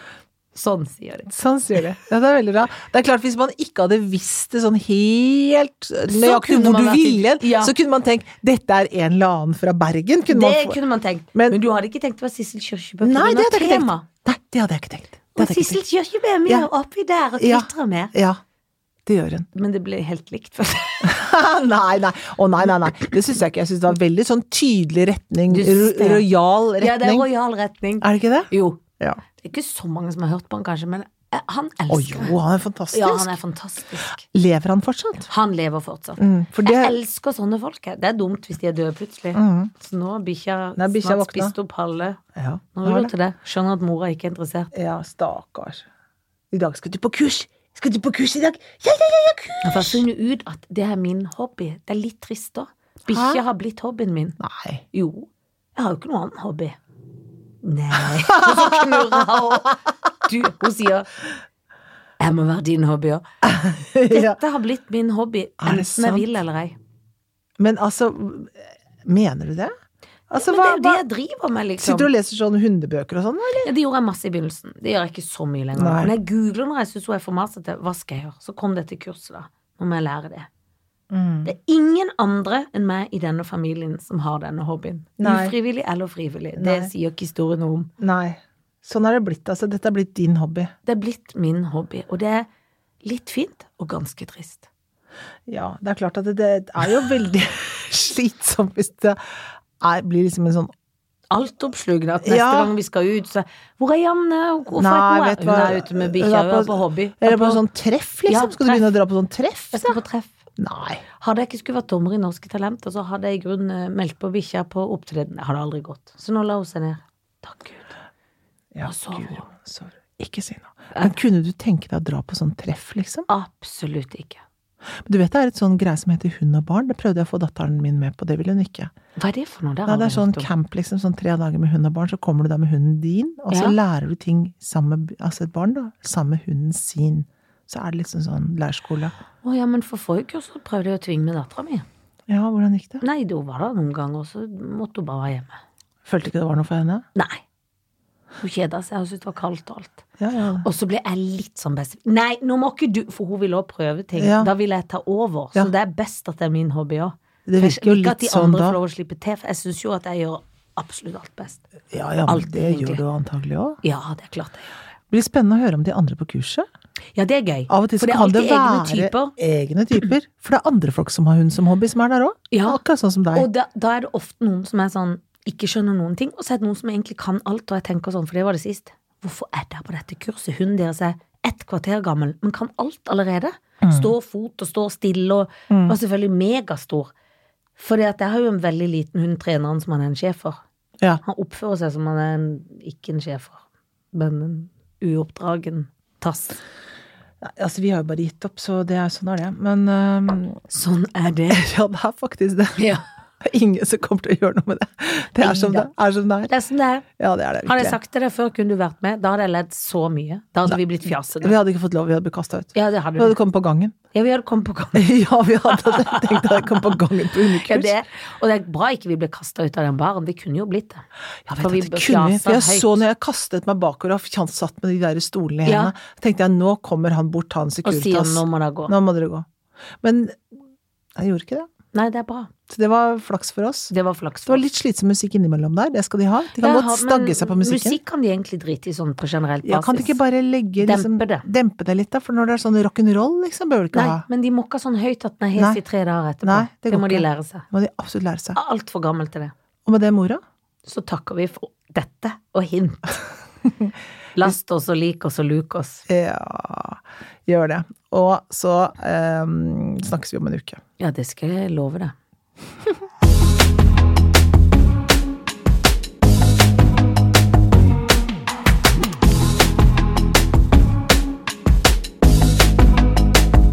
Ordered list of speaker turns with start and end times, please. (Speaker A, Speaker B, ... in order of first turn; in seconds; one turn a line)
Speaker A: 0.5-1.3
Speaker B: 1.3-10.8
Speaker A: 6.1-7.7
Speaker A: 10.3-14.1
Speaker B: 13.0-15.8
Speaker A: 15.3-18.1
Speaker B: 17.4-18.4
Speaker B: 19.1-19.5
Speaker A: 19.5-21.1
Speaker B: 21.0-27.3
Speaker A: 25.5-26.2
Speaker A: 26.8-28.8
Speaker B: 28.0-29.2
Speaker A: 29.4-32.4
Speaker B: 31.9-33.4
Speaker A: 32.9-34.2
Speaker B: 34.2-35.3
Speaker A: 35.3-42.2
Speaker B: 36.2-36.9
Speaker B: 39.3-39.7
Speaker B: 40.8-41.5
Speaker B: 42.3-43.1
Speaker A: 42.7-44.7
Speaker B: 44.7-45.8
Speaker B: 46.5-50.0
Speaker A: 49.6-54.4
Speaker B: 53.1-53.4
Speaker B: 54.4-54.8
Speaker A: 54.9-56.8
Speaker A: 57.6-61.1
Speaker B: 58.0-59.7
Speaker A: 62.2-63.2
Speaker B: 63.4-64.4
Speaker A: 64.0-66.7
Speaker B: 65.6-66.3
Speaker B: 67.6-69.7
Speaker B: 70.3-71.0
Speaker A: 70.3-72.1
Speaker B: 71.8-73.7
Speaker A: 73.6-80.5
Speaker B: 75.8-76.1
Speaker B: 81.1-81.5
Speaker A: 81.4-87.9
Speaker B: 85.2-85.5
Speaker B: 86.5-86.9
Speaker B: 88.0-90.7
Speaker A: 90.8-92.5
Speaker A: 93.0-94.7
Speaker B: 95.5-99.2
Speaker B: 99.8-100.7
Speaker A: 101.3-107.6
Speaker B: 102.2-102.7
Speaker B: 104.8-110.0
Speaker A: 108.3-108.9
Speaker A: 109.7-110.4
Speaker B: 110.6-111.0
Speaker A: 111.2-117.9
Speaker B: 118.7-123.3
Speaker A: 118.8-119.5
Speaker A: 123.3-124.4
Speaker B: 125.0-128.9
Speaker A: 129.2-130.5
Speaker B: 129.9-139.1
Speaker A: 133.5-133.8
Speaker A: 139.4-141.8
Speaker B: 142.3-143.0
Speaker A: 143.0-145.6
Speaker B: 146.0-147.0
Speaker A: 147.1-147.4
Speaker A: 148.4-150.0
Speaker B: 150.2-150.6
Speaker A: 150.6-161.6
Speaker B: 154.2-154.5
Speaker B: 157.4-158.8
Speaker B: 161.9-163.8
Speaker A: 162.3-163.0
Speaker A: 163.8-164.7
Speaker B: 165.1-166.7
Speaker A: 167.1-169.3
Speaker B: 167.7-173.5
Speaker A: 172.5-172.8
Speaker A: 173.3-187.1
Speaker B: 183.8-184.1
Speaker B: 185.7-186.0
Speaker A: 187.8-190.6
Speaker A: 191.2-196.6
Speaker B: 197.4-200.6
Speaker A: 200.7-201.6
Speaker B: 201.5-202.9
Speaker A: 202.8-203.1
Speaker B: 203.4-206.5
Speaker A: 205.4-205.9
Speaker A: 206.5-207.1
Speaker B: 207.2-208.0
Speaker A: 207.6-211.5
Speaker B: 211.4-214.0
Speaker A: 212.7-213.4
Speaker A: 214.1-215.1
Speaker B: 214.9-217.9
Speaker A: 215.7-216.7
Speaker A: 217.5-221.0
Speaker B: 221.5-229.4
Speaker A: 221.6-223.0
Speaker A: 225.6-225.9
Speaker A: 227.8-228.9
Speaker B: 230.0-230.4
Speaker B: 231.2-231.7
Speaker A: 231.9-232.5
Speaker B: 232.7-233.9
Speaker A: 233.9-234.6
Speaker B: 234.5-238.0
Speaker A: 236.6-240.2
Speaker B: 239.6-244.2
Speaker A: 240.8-241.5
Speaker A: 243.9-247.7
Speaker B: 246.4-248.6
Speaker A: 248.5-249.5
Speaker B: 249.8-250.4
Speaker A: 250.8-253.2
Speaker A: 254.3-256.0
Speaker B: 256.1-260.8
Speaker A: 261.0-262.1